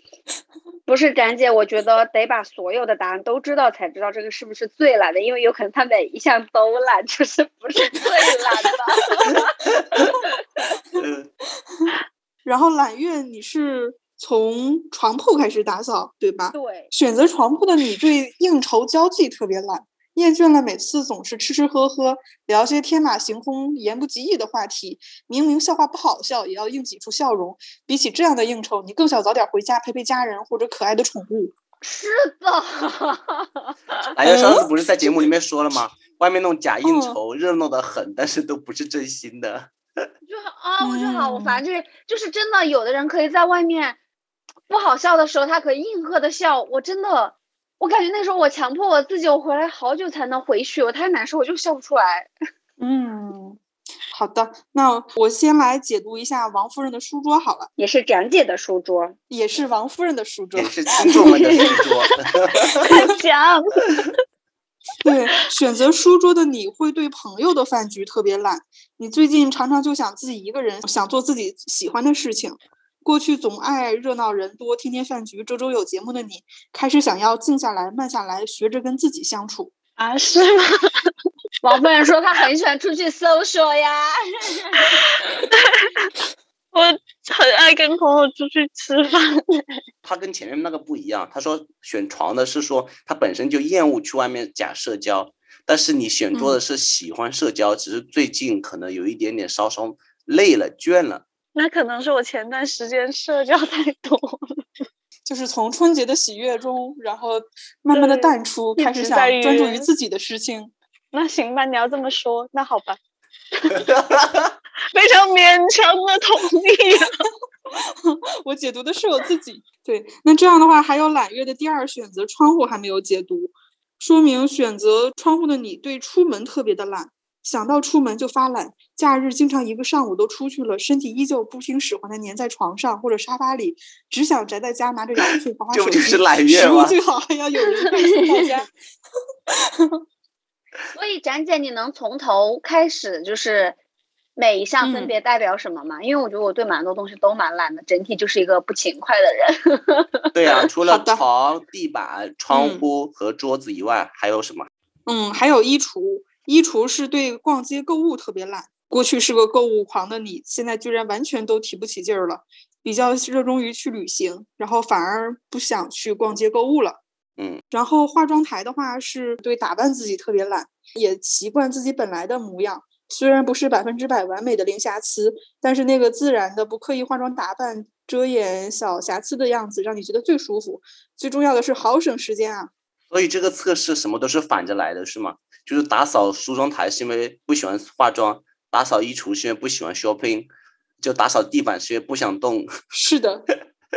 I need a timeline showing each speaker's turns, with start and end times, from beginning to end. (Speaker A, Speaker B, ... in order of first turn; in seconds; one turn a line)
Speaker A: 0.9-10.1
Speaker B: 9.8-10.1
Speaker B: 10.9-11.3
Speaker C: 12.4-31.5
Speaker A: 16.5-16.9
Speaker A: 31.8-34.0
Speaker B: 34.1-39.7
Speaker C: 34.2-34.7
Speaker C: 36.8-37.2
Speaker A: 40.2-44.0
Speaker C: 40.8-41.6
Speaker A: 44.7-52.3
Speaker C: 52.8-53.6
Speaker C: 54.1-57.7
Speaker A: 57.8-59.2
Speaker C: 59.3-60.7
Speaker B: 60.5-62.9
Speaker A: 61.0-61.8
Speaker D: 61.2-61.8
Speaker D: 62.8-64.2
Speaker C: 65.0-79.7
Speaker D: 80.0-81.1
Speaker A: 81.6-85.0
Speaker D: 85.1-86.1
Speaker D: 86.7-89.8
Speaker B: 90.0-101.2
Speaker C: 96.3-96.6
Speaker D: 101.5-104.6
Speaker C: 105.2-110.7
Speaker D: 107.9-109.9
Speaker D: 111.1-113.0
Speaker B: 113.7-114.5
Speaker D: 114.9-117.2
Speaker C: 117.8-138.7
Speaker B: 135.7-136.9
Speaker C: 139.5-140.0
Speaker A: 140.9-143.8
Speaker A: 144.4-150.3
Speaker C: 144.8-145.1
Speaker B: 150.3-154.7
Speaker C: 150.9-151.2
Speaker C: 152.5-152.8
Speaker C: 155.1-167.0
Speaker C: 167.7-182.7
Speaker B: 183.1-190.5
Speaker B: 191.0-192.7
Speaker C: 192.9-193.5